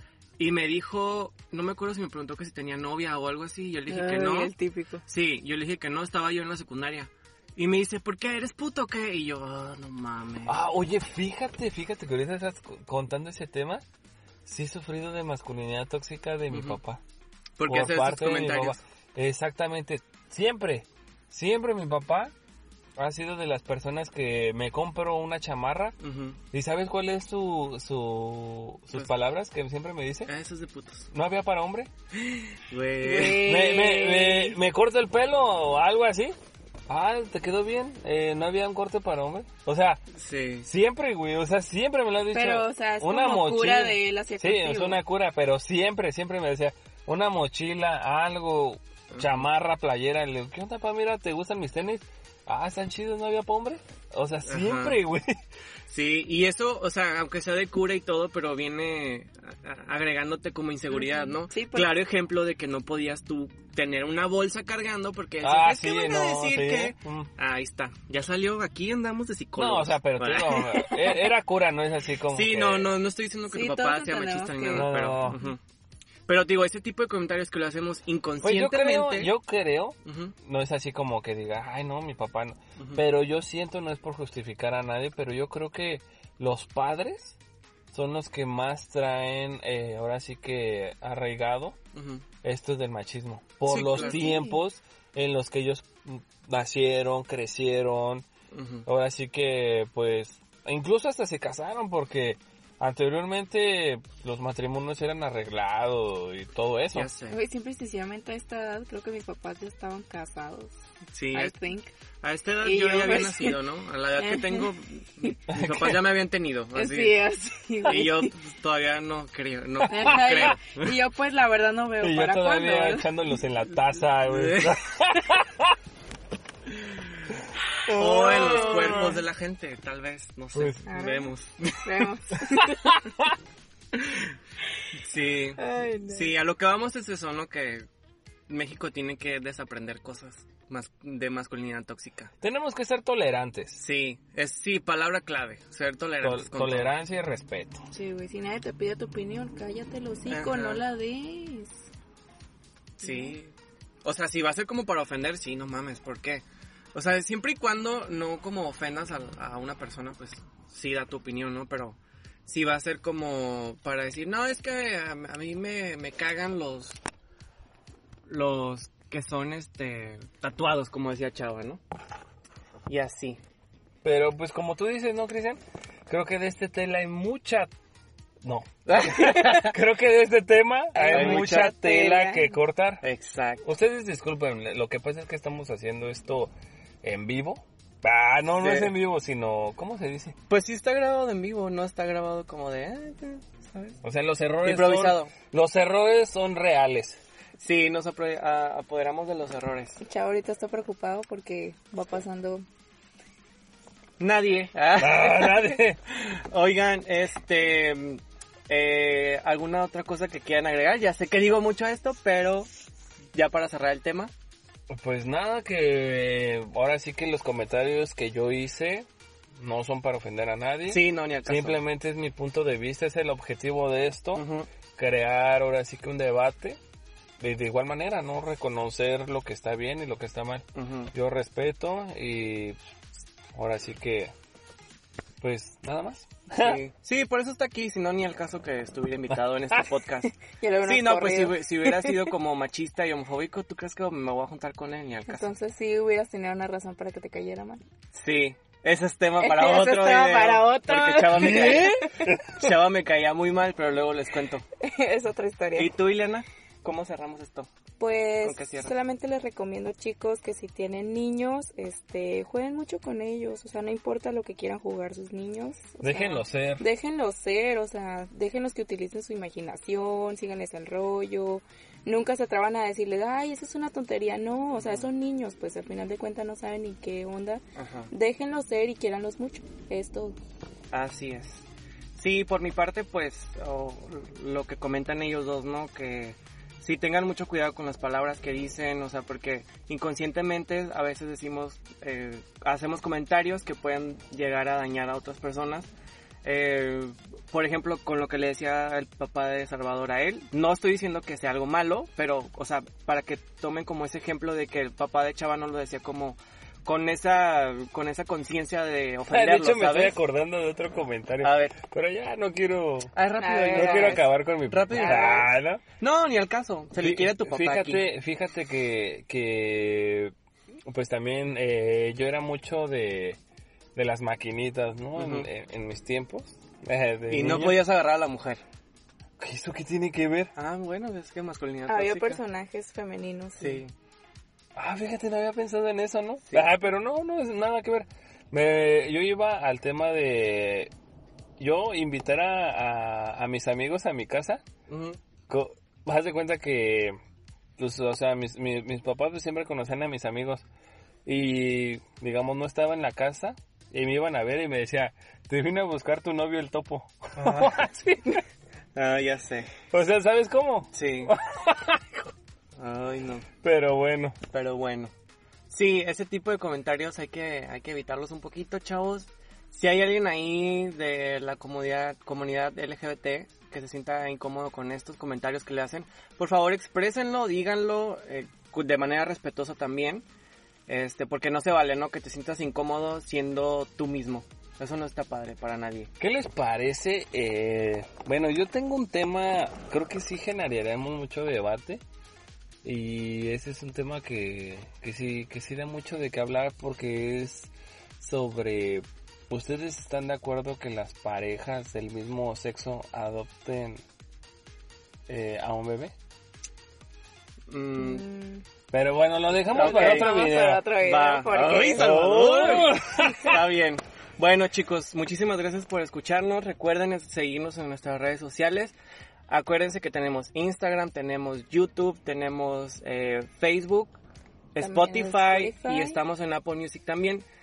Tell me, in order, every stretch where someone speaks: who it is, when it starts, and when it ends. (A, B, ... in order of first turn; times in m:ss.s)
0:00.4-0:04.5 A
0:03.9-0:05.0 B
0:05.0-0:10.6 A
0:10.4-0:13.8 C
0:14.4-0:17.0 C
0:16.5-0:16.8 A
0:17.6-0:18.8 A
0:17.7-0:22.3 C
0:23.0-0:26.0 C
0:26.0-0:26.4 A
0:26.5-0:30.3 C
0:30.2-0:31.1 A
0:31.1-0:31.9 C
0:32.2-0:33.5 A
0:33.0-0:34.6 B
0:33.2-0:36.4 C
0:36.9-0:40.0 C
0:40.1-0:40.7 A
0:40.6-0:55.4 C
0:42.3-0:45.0 B
0:49.1-0:49.4 A
0:54.5-0:55.0 A
0:55.9-1:10.8 A
1:00.9-1:01.9 B
1:05.4-1:07.3 C
1:09.6-1:12.9 C
1:10.6-1:11.1 B
1:12.3-1:15.6 A
1:13.5-1:15.5 B
1:14.7-1:15.4 C
1:16.3-1:19.3 A
1:18.4-1:27.4 C
1:20.0-1:20.3 A
1:27.9-1:31.8 C
1:31.9-1:32.2 A
1:32.4-1:38.3 C
1:33.6-1:34.3 A
1:33.9-1:34.6 B
1:38.5-1:38.8 A
1:38.8-1:47.1 C
1:46.9-1:47.4 A
1:47.3-1:50.8 B
1:51.1-1:51.5 A
1:51.3-1:51.9 B
1:52.2-1:57.2 A
1:52.6-1:53.6 B
1:54.2-1:54.7 B
1:55.5-1:56.0 C
1:56.7-1:58.3 B
1:57.8-2:00.9 A
1:59.8-2:00.6 C
1:59.9-2:03.1 B
2:02.0-2:05.8 C
2:04.2-2:04.8 A
2:07.8-2:09.2 C
2:07.9-2:12.0 A
2:08.2-2:09.2 B
2:10.8-2:13.0 B
2:12.4-2:13.2 C
2:13.9-2:14.3 A
2:15.0-2:17.8 A
2:15.6-2:16.3 B
2:18.5-2:22.3 A
2:22.4-2:23.8 C
2:23.8-2:26.9 A
2:26.2-2:27.8 C
2:27.9-2:31.8 B
2:30.3-2:30.8 A
2:33.0-2:33.5 A
2:33.0-2:33.4 B
2:34.0-2:47.0 A
2:48.3-2:51.8 A
2:52.9-2:53.4 A
2:54.0-2:57.7 C
2:58.4-3:03.0 C
2:58.8-2:59.8 A
3:01.0-3:01.8 A
3:01.0-3:02.6 B
3:03.0-3:03.6 A
3:03.6-3:10.4 C
3:08.6-3:08.9 A
3:10.5-3:14.0 A
3:14.0-3:17.2 C
3:14.6-3:15.3 A
3:17.6-3:20.0 A
3:20.0-3:22.6 B
3:24.2-3:32.7 A
3:25.0-3:26.0 C
3:33.3-3:34.3 A
3:34.9-3:46.8 C
3:40.9-3:41.8 A
3:44.3-3:44.7 A
3:47.4-3:52.8 C
3:50.8-3:51.1 A
3:53.5-3:54.3 C
3:55.4-3:56.8 C
3:56.6-4:00.3 A
4:00.5-4:02.2 B
4:00.8-4:05.5 A
4:05.3-4:07.8 B
4:08.1-4:14.6 A
4:09.4-4:12.3 B
4:11.3-4:12.7 C
4:14.8-4:15.9 B
4:15.7-4:17.7 A
4:18.0-4:40.4 B
4:18.4-4:18.9 A
4:26.0-4:26.8 C
4:34.8-4:35.1 A
4:37.8-4:38.1 A
4:40.9-4:55.9 A
4:56.4-5:10.2 A
5:09.3-5:13.1 C
5:11.4-5:11.8 A
5:13.1-5:18.0 A
5:13.4-5:14.3 B
5:13.7-5:15.8 C
5:14.9-5:15.4 B
5:17.0-5:20.3 C
5:20.9-5:23.4 C
5:23.9-5:27.8 C
5:25.2-5:25.5 A
5:27.3-5:28.6 A
5:29.4-5:30.5 C
5:30.6-5:32.4 A
5:31.9-5:33.8 B
5:33.6-5:33.9 A
5:34.8-5:40.9 C
5:41.6-5:44.6 C
5:44.9-5:45.2 A
5:45.5-5:47.2 C
5:47.8-5:50.6 C
5:51.2-5:58.4 C
5:57.4-5:57.8 A
5:58.9-5:59.7 A
5:59.9-6:02.3 C
6:00.9-6:01.3 A
6:02.8-6:03.5 A
6:03.6-6:04.4 C
6:04.5-6:05.1 A
6:05.7-6:20.2 A
6:20.9-6:26.1 A
6:26.2-6:32.0 C
6:32.8-6:44.0 C
6:45.3-6:46.1 C
6:47.7-6:48.2 A
6:48.0-6:48.6 B
6:48.9-6:50.8 C
6:49.7-6:53.3 B
6:49.7-6:58.9 A
6:51.9-6:53.6 C
6:59.5-7:04.2 A
7:04.7-7:07.4 A
7:04.8-7:06.2 B